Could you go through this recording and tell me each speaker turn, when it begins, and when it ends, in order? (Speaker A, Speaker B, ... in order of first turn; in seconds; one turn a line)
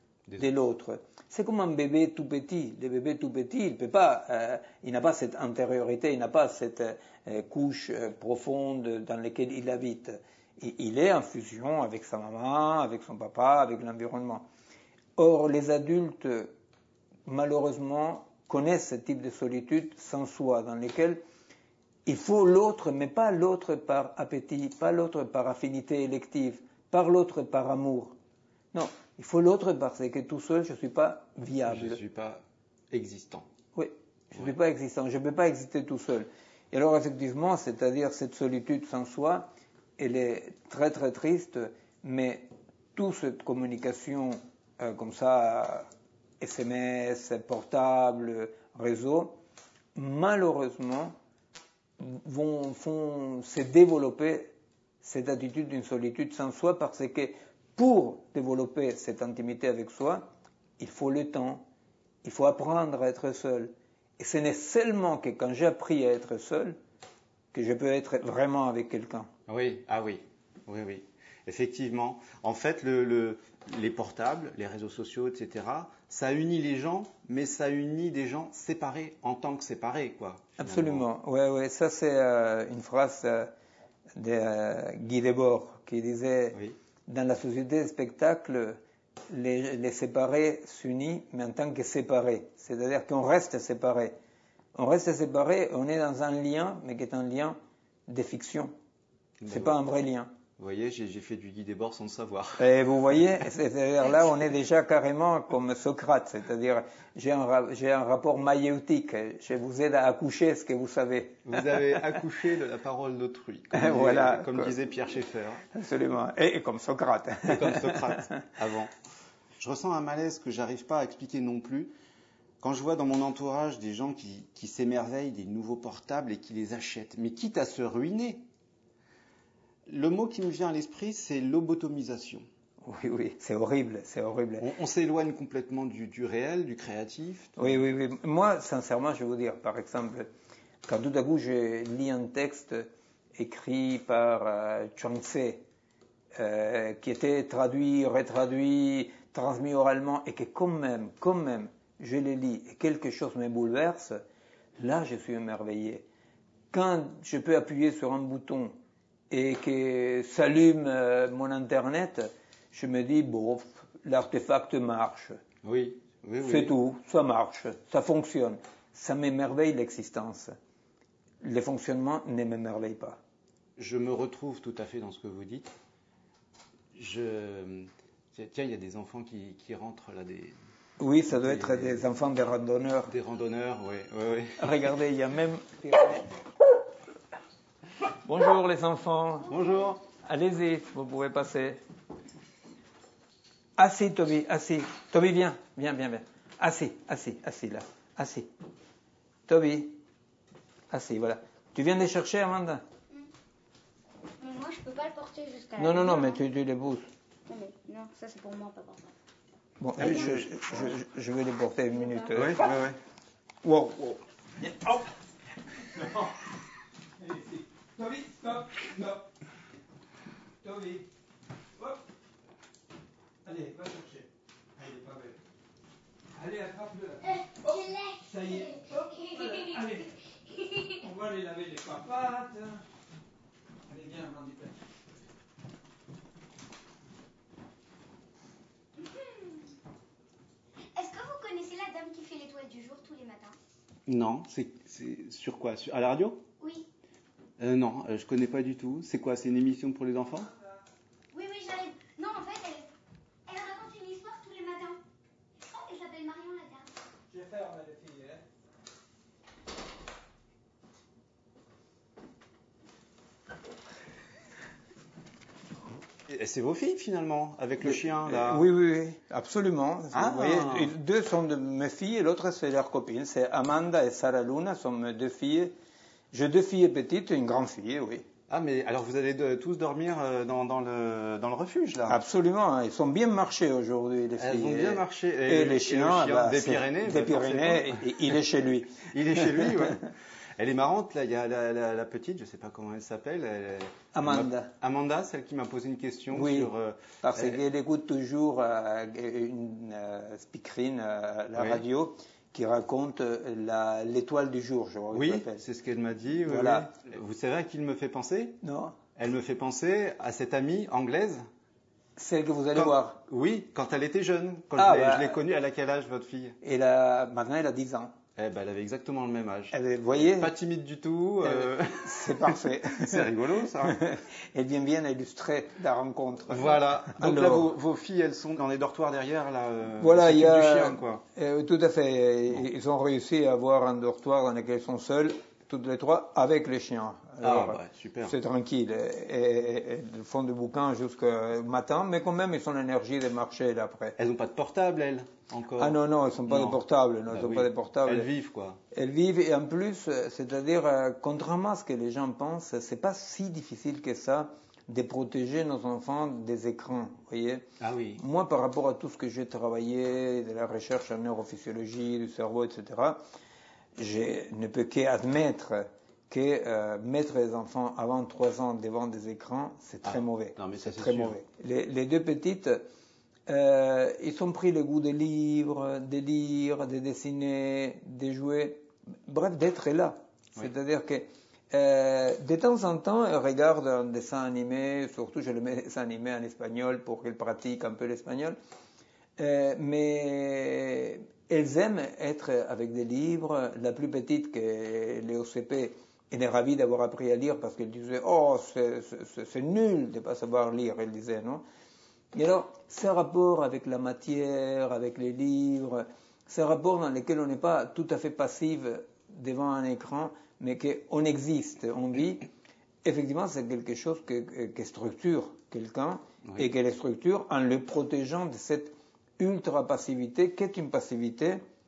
Speaker A: 0.4-14.5
Speaker A: 15.2-16.5
Speaker A: 17.3-21.2
Speaker A: 22.1-28.2
Speaker A: 28.7-32.0
Speaker B: 31.6-33.5
Speaker A: 33.8-49.4
Speaker A: 50.0-51.1
Speaker A: 52.0-61.7
Speaker A: 62.2-66.8
Speaker A: 67.5-69.3
Speaker B: 69.5-81.1
Speaker A: 80.6-83.5
Speaker A: 84.2-94.2
Speaker A: 94.8-98.7
Speaker B: 99.4-99.8
Speaker A: 99.5-100.3
Speaker B: 100.6-102.7
Speaker A: 102.6-112.1
Speaker B: 111.5-115.7
Speaker A: 113.7-114.8
Speaker A: 115.7-118.4
Speaker B: 117.5-118.9
Speaker B: 119.6-121.9
Speaker B: 122.6-128.5
Speaker B: 129.9-132.5
Speaker A: 132.8-134.7
Speaker B: 134.6-137.7
Speaker A: 137.6-140.3
Speaker A: 140.9-145.7
Speaker A: 146.3-154.2
Speaker A: 154.8-156.1
Speaker A: 156.7-158.8
Speaker A: 159.3-165.4
Speaker B: 165.6-166.8
Speaker A: 166.4-170.5
Speaker A: 171.4-173.2
Speaker B: 173.8-175.7
Speaker B: 176.9-180.6
Speaker A: 181.0-183.1
Speaker B: 181.3-182.1
Speaker B: 183.1-184.8
Speaker A: 184.6-186.3
Speaker A: 188.2-189.5
Speaker B: 189.5-190.0
Speaker A: 190.2-191.8
Speaker A: 193.8-198.5
Speaker A: 199.5-200.0
Speaker A: 200.9-202.8
Speaker C: 204.4-206.4
Speaker A: 205.8-207.1
Speaker C: 207.5-209.1
Speaker A: 209.8-212.7
Speaker B: 210.0-210.9
Speaker C: 210.0-210.4
Speaker C: 212.0-212.2
Speaker B: 212.3-213.0
Speaker A: 213.6-215.1
Speaker A: 215.8-216.4
Speaker A: 217.2-219.3
Speaker A: 220.6-221.1
Speaker A: 223.4-225.4
Speaker A: 226.3-230.1
Speaker C: 227.2-229.9
Speaker C: 230.5-230.9
Speaker A: 230.9-232.8
Speaker A: 233.9-234.7
Speaker C: 239.0-239.7
Speaker C: 240.9-243.6
Speaker B: 244.1-246.4
Speaker C: 246.6-246.9
Speaker B: 247.6-250.5
Speaker C: 251.3-252.9
Speaker C: 253.5-255.0
Speaker C: 255.6-256.9
Speaker A: 257.3-258.4
Speaker B: 266.3-268.7
Speaker A: 267.8-275.7
Speaker B: 270.1-270.9
Speaker A: 276.3-278.3
Speaker B: 278.5-282.2
Speaker A: 282.1-289.9
Speaker B: 284.4-288.4
Speaker B: 289.1-297.6
Speaker A: 294.1-294.7
Speaker A: 296.3-305.6
Speaker B: 301.5-301.9
Speaker B: 305.1-308.6
Speaker A: 306.5-306.9
Speaker A: 308.6-309.0
Speaker B: 309.2-311.5
Speaker A: 312.2-313.2
Speaker B: 312.8-316.6
Speaker A: 314.8-315.4
Speaker A: 316.6-318.1
Speaker B: 318.4-324.0
Speaker A: 319.7-320.5
Speaker A: 321.4-327.7
Speaker B: 326.5-331.2
Speaker A: 330.0-344.2
Speaker B: 337.4-338.4
Speaker B: 344.2-348.8
Speaker A: 345.8-348.3
Speaker A: 348.9-357.6
Speaker B: 357.8-358.2
Speaker A: 358.2-363.2
Speaker A: 364.0-372.8
Speaker B: 370.0-371.4
Speaker A: 373.5-388.6
Speaker A: 389.4-401.6
Speaker A: 402.3-412.5
Speaker A: 413.0-421.6